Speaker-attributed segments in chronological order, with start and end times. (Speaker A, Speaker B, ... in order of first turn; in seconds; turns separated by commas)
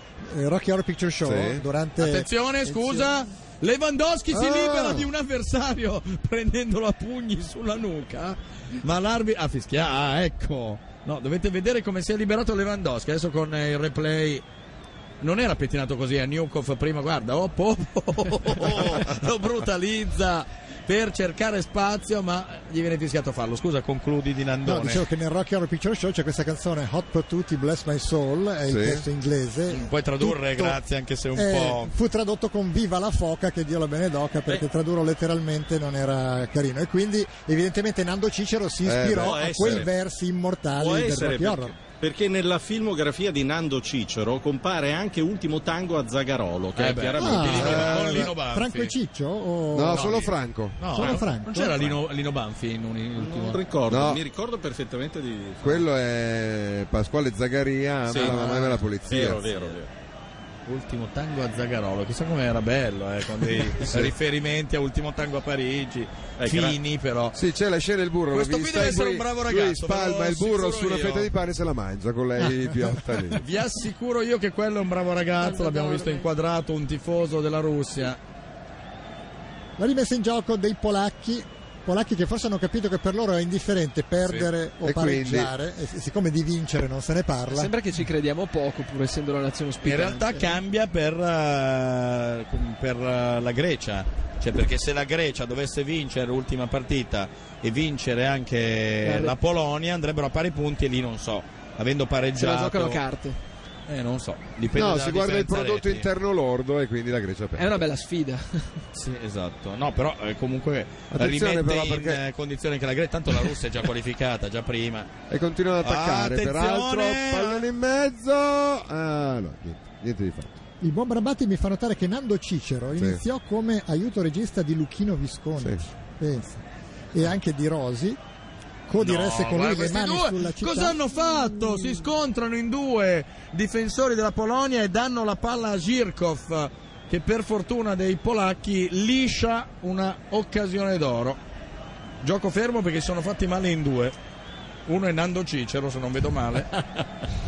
Speaker A: 0.2-2.3, Speaker B: 1.2-1.6, Speaker C: 2.0-14.4, Speaker D: 2.7-3.0, Speaker B: 4.3-5.1, Speaker C: 15.2-25.0, Speaker A: 24.6-30.8, Speaker B: 28.7-29.0, Speaker C: 29.7-31.9, Speaker A: 31.3-41.7, Speaker B: 38.8-39.9, Speaker E: 39.1-39.9, Speaker E: 40.7-48.2, Speaker C: 46.8-48.9, Speaker A: 47.2-50.3, Speaker B: 47.5-48.3, Speaker B: 49.7-51.0, Speaker C: 49.9-53.6, Speaker A: 50.9-51.9, Speaker E: 53.2-55.8, Speaker B: 53.9-54.2, Speaker B: 55.6-59.5, Speaker E: 58.1-59.9, Speaker C: 58.1-58.8, Speaker C: 60.7-67.3, Speaker B: 63.8-64.1, Speaker E: 66.4-66.8, Speaker B: 67.3-73.4, Speaker C: 68.3-71.3, Speaker C: 73.3-78.2, Speaker A: 79.8-87.7, Speaker C: 84.2-84.5, Speaker B: 84.8-85.5, Speaker D: 87.5-90.6, Speaker C: 89.8-103.0, Speaker D: 99.0-99.3, Speaker D: 102.3-103.4, Speaker C: 103.9-106.1, Speaker B: 104.7-107.8, Speaker D: 107.5-108.8, Speaker C: 108.9-115.1, Speaker B: 111.1-112.2, Speaker B: 115.3-120.5, Speaker C: 115.8-117.7, Speaker A: 120.8-126.6, Speaker A: 127.1-128.2, Speaker A: 128.9-131.0, Speaker C: 129.0-141.4, Speaker C: 142.2-144.1, Speaker C: 144.9-147.0